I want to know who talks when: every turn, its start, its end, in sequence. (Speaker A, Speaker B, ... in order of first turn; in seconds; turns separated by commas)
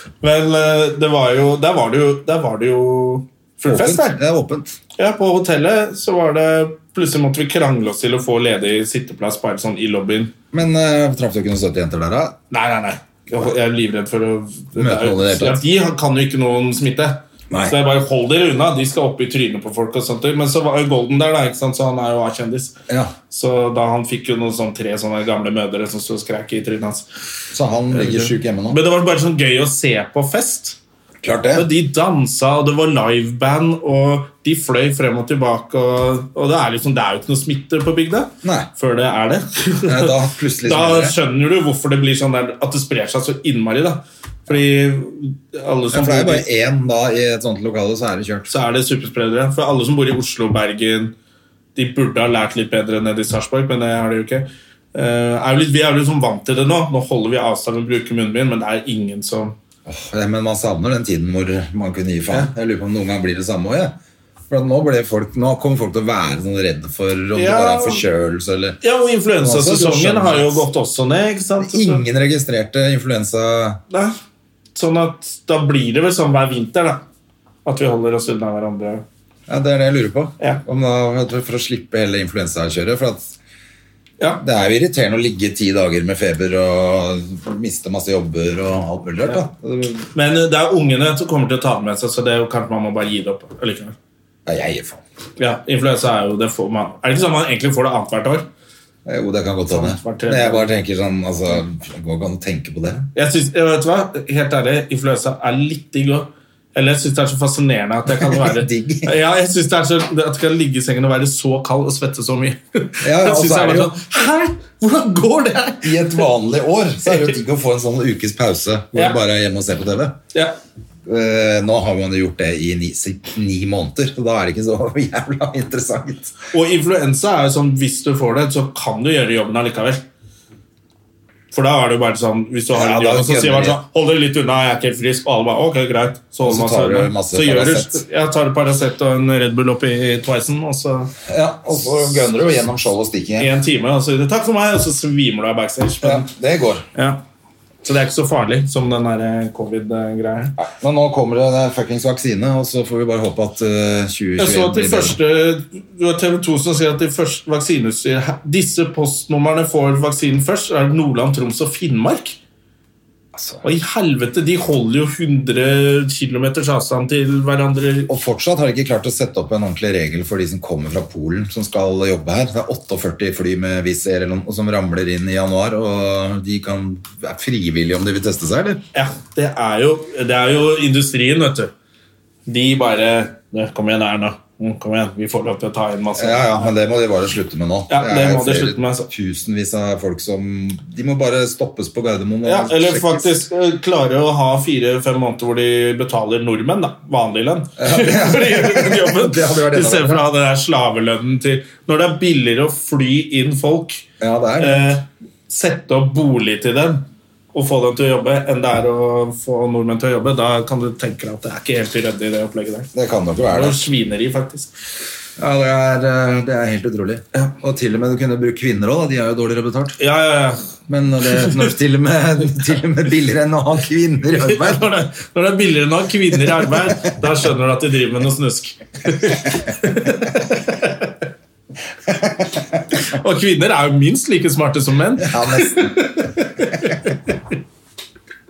Speaker A: 0.2-4.2, Speaker B: 3.6-4.8, Speaker A: 5.0-10.3, Speaker B: 10.5-12.3, Speaker A: 12.5-22.8, Speaker B: 14.8-15.6, Speaker B: 17.5-17.8, Speaker B: 22.9-23.1, Speaker A: 23.3-27.1, Speaker B: 27.5-28.8, Speaker A: 27.9-30.8, Speaker B: 31.2-31.7, Speaker A: 31.5-46.4, Speaker B: 38.4-38.7, Speaker B: 39.8-41.2, Speaker B: 45.9-48.5, Speaker A: 48.5-51.1, Speaker A: 51.7-59.5, Speaker B: 59.9-63.9, Speaker B: 64.5-68.8, Speaker A: 67.3-68.0, Speaker A: 68.8-72.0, Speaker B: 69.4-70.6, Speaker B: 71.6-73.8, Speaker A: 73.9-74.1, Speaker A: 74.7-77.0, Speaker A: 77.6-79.0, Speaker B: 79.5-83.3, Speaker B: 84.4-90.1, Speaker A: 90.1-93.9, Speaker B: 94.5-95.0, Speaker A: 95.4-98.5, Speaker B: 99.0-103.0, Speaker A: 99.7-100.7, Speaker A: 103.1-116.2, Speaker B: 108.1-109.1, Speaker B: 113.0-114.0, Speaker B: 115.8-120.2, Speaker A: 117.0-117.4, Speaker B: 121.0-126.3, Speaker A: 126.5-130.0, Speaker A: 131.5-141.1, Speaker B: 132.7-133.8, Speaker B: 136.4-138.0, Speaker B: 141.3-143.5, Speaker A: 143.4-146.3, Speaker B: 146.0-146.8, Speaker A: 146.9-147.2, Speaker A: 147.8-150.6, Speaker B: 150.6-155.2, Speaker A: 154.4-162.4, Speaker B: 163.3-163.6, Speaker A: 163.6-168.1, Speaker B: 168.1-178.8, Speaker A: 178.9-181.7, Speaker A: 182.4-186.7, Speaker B: 186.2-193.3, Speaker A: 187.9-189.1, Speaker A: 192.4-204.0, Speaker B: 197.8-200.2, Speaker B: 204.2-204.9, Speaker A: 204.6-212.9, Speaker B: 212.9-213.8, Speaker A: 213.5-214.7, Speaker B: 215.4-220.0, Speaker A: 220.0-220.7, Speaker B: 220.9-224.8, Speaker A: 221.4-221.7, Speaker A: 224.4-231.2, Speaker B: 232.1-232.4, Speaker A: 232.9-237.2, Speaker B: 235.2-236.1